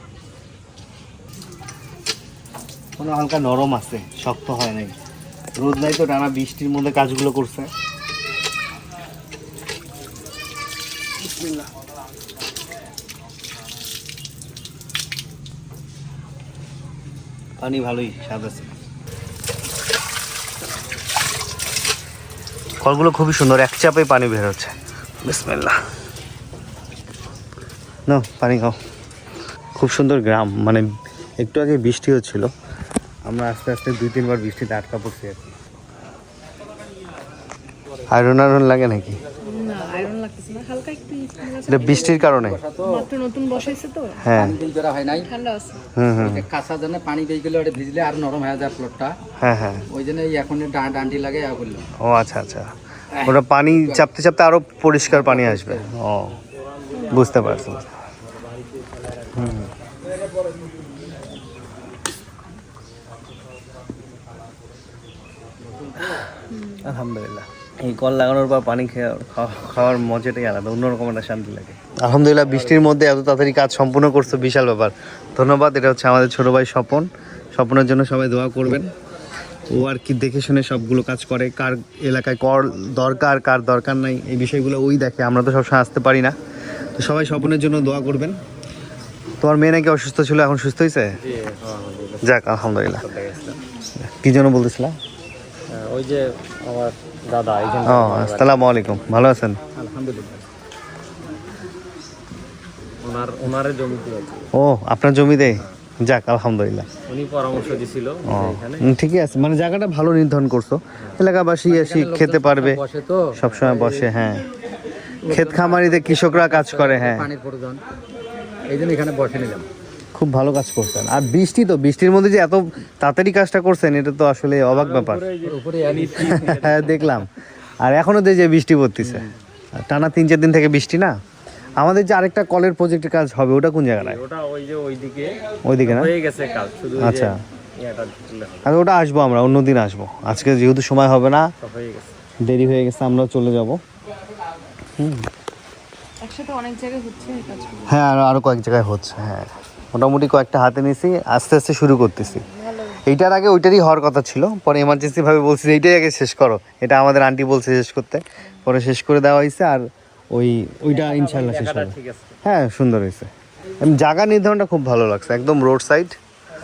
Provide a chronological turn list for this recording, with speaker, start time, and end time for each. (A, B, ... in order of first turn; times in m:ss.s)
0:03.0-0:05.0 A
0:05.6-0:07.7 A
0:11.2-0:11.7 A
0:17.6-0:18.7 A
0:22.8-0:24.7 A
0:25.2-0:25.8 A
0:28.1-0:28.8 A
0:29.8-0:30.9 A
0:31.4-0:32.5 A
0:33.3-0:35.6 A
0:38.1-0:39.2 A
0:39.4-0:42.2 B
0:41.7-0:42.6 A
0:42.3-0:43.1 C
0:42.9-0:44.2 B
0:44.2-0:44.6 A
0:44.3-0:45.3 C
0:45.3-0:45.8 B
0:46.0-0:46.5 A
0:46.2-0:49.1 C
0:49.4-0:49.8 A
0:49.9-0:51.9 C
0:52.0-0:52.7 A
0:53.2-0:56.4 A
0:55.1-0:55.8 C
0:57.1-0:57.9 A
0:59.3-0:59.7 A
1:06.6-1:06.8 B
1:06.8-1:18.9 A
1:19.7-1:26.4 A
1:27.0-1:28.4 A
1:29.4-1:31.2 A
1:31.2-1:32.3 D
1:32.2-1:33.0 A
1:32.9-1:33.6 D
1:34.0-1:35.0 A
1:35.7-1:38.6 D
1:37.8-1:39.6 A
1:39.8-1:40.4 C
1:43.0-1:44.5 D
1:44.5-1:46.9 A
1:47.1-1:48.9 D
1:48.3-1:52.8 A
1:51.7-1:53.4 C
1:53.4-1:54.4 A
1:55.2-1:57.8 C
1:55.3-1:57.3 A
1:58.7-1:59.7 C
2:00.1-2:05.3 A
2:04.7-2:07.2 D
2:05.4-2:06.6 C
2:06.2-2:07.3 A
2:07.8-2:09.3 A
2:09.9-2:11.1 A
2:11.8-2:14.2 A
2:14.0-2:18.7 D
2:15.6-2:16.1 A
2:17.0-2:17.4 A
2:18.6-2:21.5 A
2:21.6-2:22.1 D
2:22.4-2:23.8 A
2:25.0-2:25.3 A
2:26.2-2:27.9 B
2:27.9-2:43.3 A
2:40.9-2:42.4 D
2:43.8-2:46.2 A